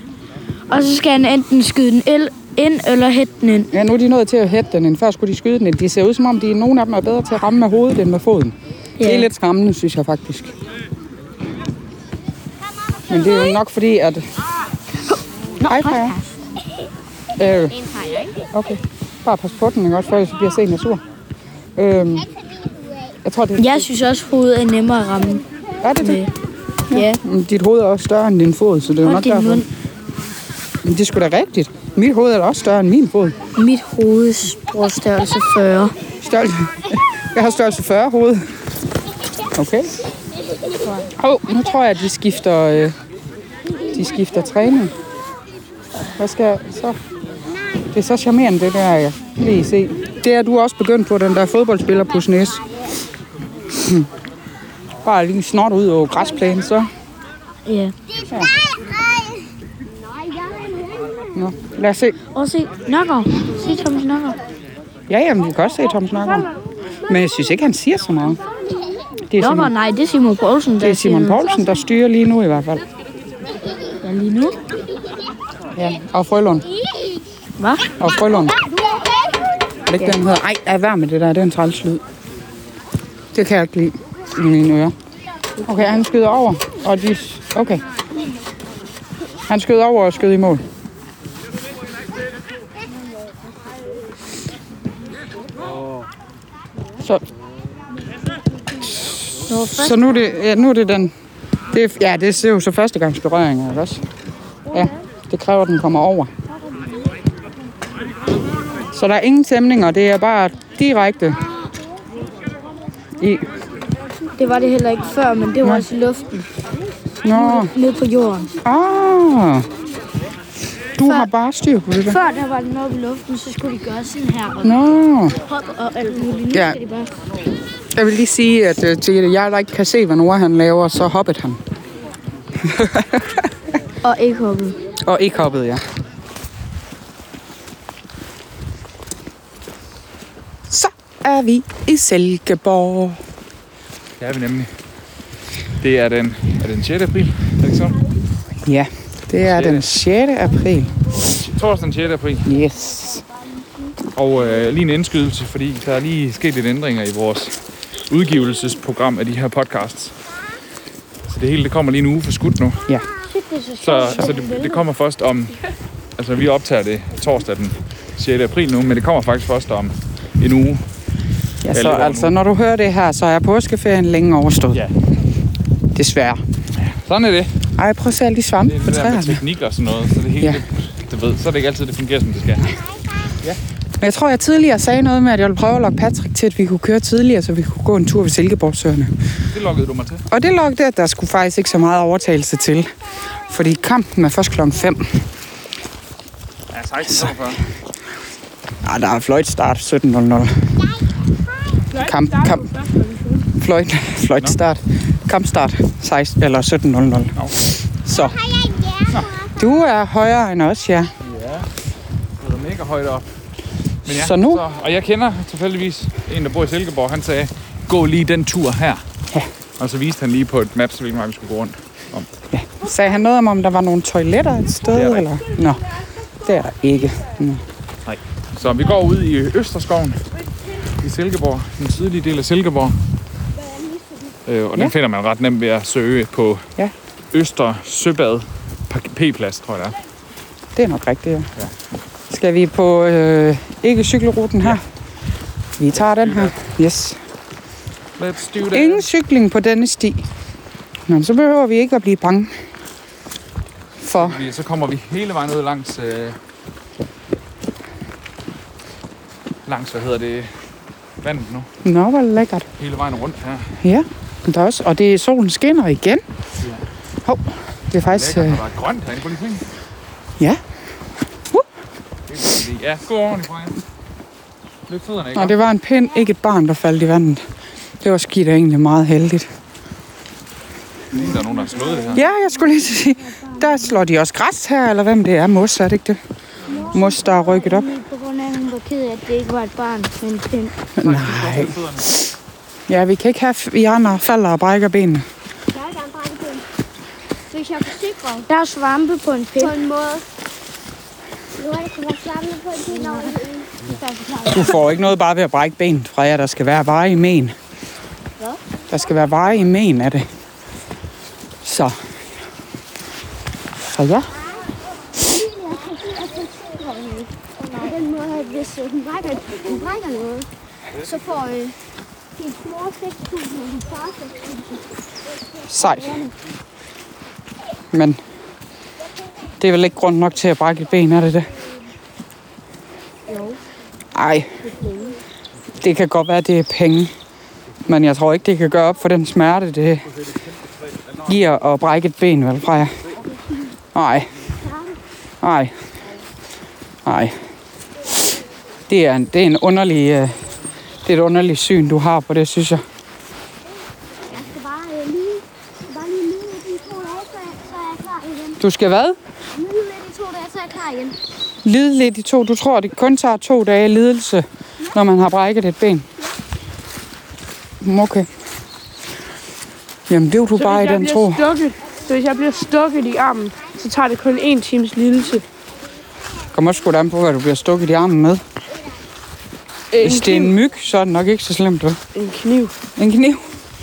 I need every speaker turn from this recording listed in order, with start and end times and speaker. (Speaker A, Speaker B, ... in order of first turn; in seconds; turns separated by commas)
Speaker A: 0.7-3.7, Speaker B: 3.7-10.5, Speaker A: 9.0-9.3, Speaker B: 13.1-14.2, Speaker B: 15.6-16.1, Speaker A: 15.6-16.3, Speaker B: 17.4-17.8, Speaker B: 18.5-21.0, Speaker B: 21.8-22.2, Speaker C: 22.4-23.1, Speaker B: 23.2-23.9, Speaker A: 23.6-25.4, Speaker B: 25.8-26.2, Speaker A: 26.0-26.3, Speaker B: 26.9-29.6, Speaker A: 26.9-27.2, Speaker A: 29.0-29.7, Speaker B: 30.8-33.4, Speaker A: 33.6-35.9, Speaker B: 36.2-38.4, Speaker B: 39.5-39.9, Speaker A: 40.8-41.1, Speaker B: 41.2-42.9, Speaker B: 43.9-44.9, Speaker B: 46.1-47.0, Speaker B: 47.9-52.6, Speaker B: 53.8-54.0, Speaker B: 55.0-56.9, Speaker A: 57.6-57.9, Speaker C: 58.6-59.4, Speaker C: 60.3-61.2, Speaker B: 61.3-62.1, Speaker A: 62.3-64.4, Speaker B: 65.1-66.5, Speaker B: 67.1-68.4, Speaker B: 69.3-69.7, Speaker A: 69.4-71.8, Speaker B: 70.8-72.8, Speaker A: 74.0-74.5, Speaker B: 75.8-76.6, Speaker A: 77.6-77.8, Speaker B: 78.0-78.5, Speaker C: 78.7-79.2, Speaker B: 79.9-82.0, Speaker B: 83.3-84.9, Speaker B: 85.7-87.8, Speaker B: 89.5-90.6, Speaker A: 99.5-100.3, Speaker B: 99.6-101.1, Speaker B: 101.7-104.0, Speaker B: 104.7-106.3, Speaker B: 108.9-111.4, Speaker B: 113.2-113.4, Speaker A: 114.4-116.5, Speaker B: 117.2-117.7, Speaker A: 117.3-118.5, Speaker B: 118.6-119.6, Speaker B: 121.0-122.2, Speaker A: 121.0-121.3, Speaker A: 122.0-124.8, Speaker B: 124.6-125.3, Speaker A: 125.5-127.1, Speaker B: 126.5-126.8, Speaker B: 127.9-131.6, Speaker B: 132.6-133.4, Speaker A: 134.0-134.8, Speaker B: 135.0-135.8, Speaker B: 140.7-143.2, Speaker D: 144.2-144.7, Speaker D: 145.8-147.9, Speaker B: 148.6-150.9, Speaker D: 149.4-149.8, Speaker D: 151.2-152.5, Speaker B: 152.4-153.2, Speaker D: 154.2-157.5, Speaker D: 158.1-160.1, Speaker D: 161.3-162.8, Speaker A: 163.3-164.8, Speaker D: 163.8-165.5, Speaker D: 166.2-170.8, Speaker B: 171.6-174.8, Speaker D: 171.7-172.4, Speaker B: 175.9-176.4, Speaker D: 176.8-177.5, Speaker B: 177.8-179.4, Speaker D: 178.6-182.7, Speaker C: 182.6-183.4, Speaker B: 184.0-189.1, Speaker D: 189.5-190.2, Speaker B: 190.3-192.9, Speaker B: 193.5-195.0, Speaker D: 196.7-197.6, Speaker B: 198.8-200.5, Speaker C: 200.8-201.8, Speaker E: 201.9-203.4, Speaker B: 202.0-202.7, Speaker B: 203.6-207.4, Speaker B: 208.0-208.4, Speaker C: 208.1-209.8, Speaker B: 209.6-211.1, Speaker D: 211.2-211.7, Speaker D: 212.4-213.2, Speaker D: 214.0-219.0, Speaker B: 214.1-214.6, Speaker D: 219.8-222.3, Speaker B: 222.5-225.8, Speaker D: 224.9-225.3, Speaker B: 226.4-227.6, Speaker D: 228.0-230.2, Speaker D: 231.0-232.9, Speaker D: 234.4-236.7, Speaker D: 237.3-239.9, Speaker B: 240.8-241.5, Speaker B: 242.3-244.8, Speaker B: 245.8-247.2, Speaker D: 246.1-246.5, Speaker D: 248.2-249.1, Speaker B: 248.7-250.2, Speaker B: 251.1-252.5, Speaker B: 254.0-254.4, Speaker D: 254.2-256.4, Speaker D: 259.6-260.5, Speaker D: 261.2-261.7, Speaker B: 261.8-262.7, Speaker D: 262.8-263.7, Speaker B: 263.8-266.2, Speaker B: 267.2-268.6, Speaker D: 268.0-269.6, Speaker D: 272.3-273.8, Speaker D: 274.9-275.6, Speaker B: 275.3-277.4, Speaker B: 278.0-279.5, Speaker D: 281.1-282.2, Speaker B: 282.1-286.2, Speaker A: 286.7-290.7, Speaker B: 286.9-287.9, Speaker B: 291.0-291.8, Speaker D: 291.0-292.1, Speaker B: 292.9-295.2, Speaker C: 295.7-296.6, Speaker C: 297.5-298.5, Speaker A: 298.5-299.8, Speaker C: 299.6-300.2, Speaker C: 301.5-303.7, Speaker A: 302.9-303.3, Speaker A: 304.0-304.8, Speaker B: 304.5-307.5, Speaker B: 308.9-310.2, Speaker B: 311.6-311.9, Speaker B: 313.8-314.3, Speaker C: 315.3-320.5, Speaker C: 321.0-321.4, Speaker A: 321.2-321.7, Speaker C: 322.4-324.6, Speaker B: 325.7-326.2, Speaker B: 327.9-328.2, Speaker B: 329.6-331.5, Speaker E: 333.3-333.6, Speaker B: 334.1-334.5, Speaker E: 334.6-335.1, Speaker B: 335.8-337.1, Speaker B: 337.9-340.0, Speaker B: 341.2-342.9, Speaker B: 343.9-344.3, Speaker B: 345.4-345.7, Speaker B: 347.0-347.4, Speaker B: 348.9-350.3, Speaker B: 351.0-352.8, Speaker C: 354.2-358.6, Speaker B: 358.6-359.2, Speaker C: 359.6-361.1, Speaker B: 361.6-366.1, Speaker B: 367.8-368.3, Speaker B: 370.1-371.4, Speaker E: 370.5-375.4, Speaker B: 376.5-378.4, Speaker B: 379.9-382.0, Speaker E: 379.9-380.6, Speaker E: 382.1-382.8, Speaker B: 383.0-383.4